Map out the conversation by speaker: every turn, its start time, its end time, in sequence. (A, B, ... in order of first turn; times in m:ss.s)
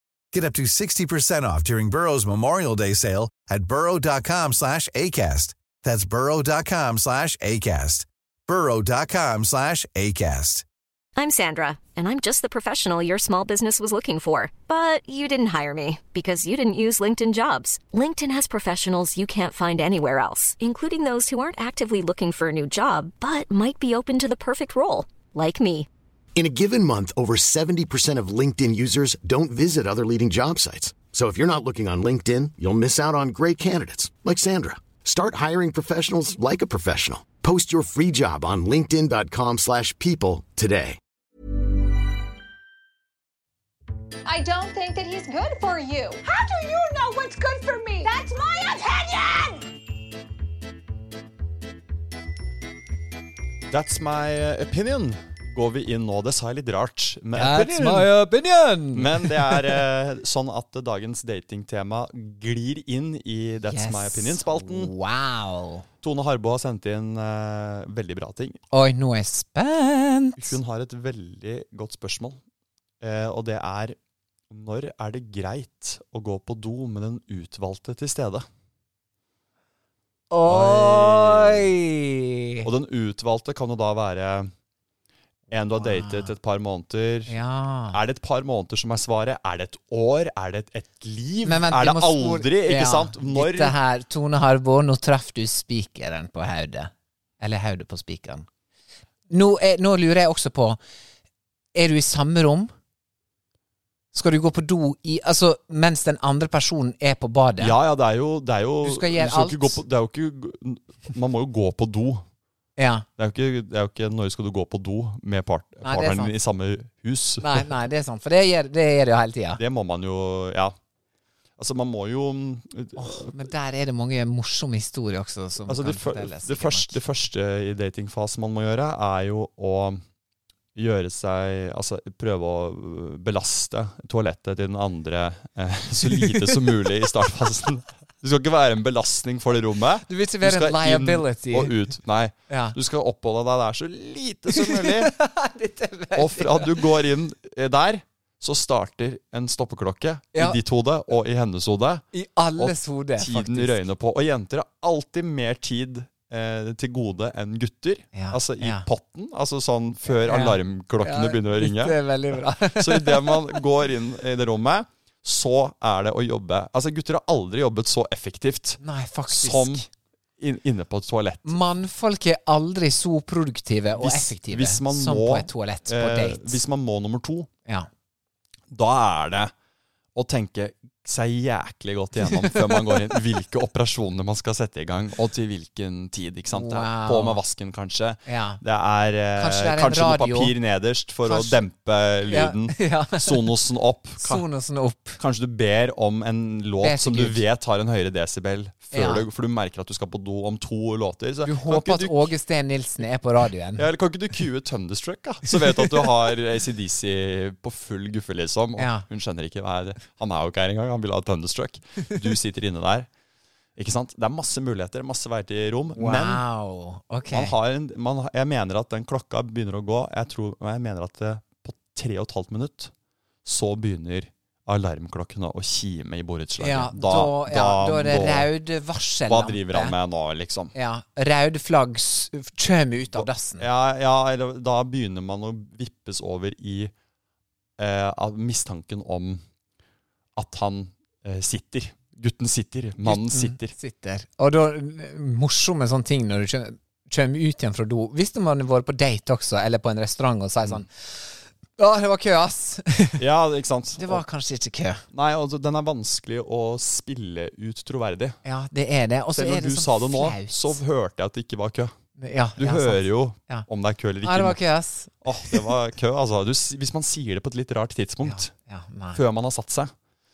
0:00.3-0:10.6 A
0:11.2-0:25.9 B
0:26.4-0:41.0 C
0:44.2-0:49.7 D
0:53.7-0:58.1 E
0:57.4-0:59.8 F
0:58.9-1:04.9 E
1:03.7-1:05.8 F
1:06.0-1:08.6 E
1:08.7-1:10.6 F
1:10.4-1:12.4 E
1:13.0-1:14.0 E
1:14.5-1:18.4 E
1:20.3-1:22.7 F
1:20.4-1:21.7 E
1:22.6-1:24.5 E
1:25.5-1:27.3 E
1:25.8-1:26.3 F
1:27.3-1:28.0 F
1:27.9-1:33.7 E
1:31.4-1:38.4 F
1:39.3-1:40.8 F
1:41.7-1:42.7 F
1:44.1-1:47.7 F
1:47.6-1:52.2 E
1:48.8-1:49.8 F
1:52.8-1:53.1 F
1:53.2-1:57.7 E
1:55.8-1:56.3 F
1:57.4-1:59.6 F
1:59.6-2:00.7 E
2:01.6-2:03.4 E
2:03.0-2:07.0 F
2:05.7-2:10.0 E
2:10.7-2:25.1 E
2:16.1-2:16.6 F
2:20.1-2:21.7 F
2:22.5-2:22.8 F
2:24.5-2:26.7 F
2:26.2-2:32.0 E
2:30.3-2:30.6 F
2:32.1-2:33.8 F
2:32.6-2:42.0 E
2:38.1-2:38.9 F
2:40.1-2:43.6 F
2:42.7-2:49.8 E
2:48.8-2:49.8 F
2:50.4-2:51.6 E
2:51.4-2:56.6 F
2:54.0-2:57.5 E
2:58.7-2:59.5 E
3:00.1-3:14.4 E
3:02.3-3:03.0 F
3:06.5-3:07.4 F
3:08.3-3:08.6 F
3:09.4-3:10.5 F
3:11.2-3:11.6 F
3:12.3-3:13.5 F
3:14.2-3:15.2 F
3:15.2-3:22.3 E
3:16.8-3:17.4 F
3:18.9-3:19.2 F
3:21.4-3:23.8 F
3:23.8-3:33.1 E
3:25.6-3:26.1 F
3:28.8-3:29.0 F
3:33.8-3:36.4 E
3:36.0-3:37.5 F
3:37.3-3:42.9 E
3:43.4-3:48.5 E
3:46.6-3:49.9 F
3:49.3-3:50.7 E
3:50.7-3:53.6 F
3:53.1-3:56.9 E
3:57.8-3:59.4 E
4:00.4-4:03.8 E
4:03.0-4:13.2 F
4:13.2-4:14.2 E
4:14.0-4:15.0 F
4:15.1-4:18.4 E
4:18.4-4:20.8 F
4:19.3-4:21.9 E
4:22.2-4:23.7 F
4:22.6-4:24.6 E
4:24.2-4:25.7 F
4:25.2-4:28.5 E
4:28.2-4:29.2 F
4:29.1-4:29.9 E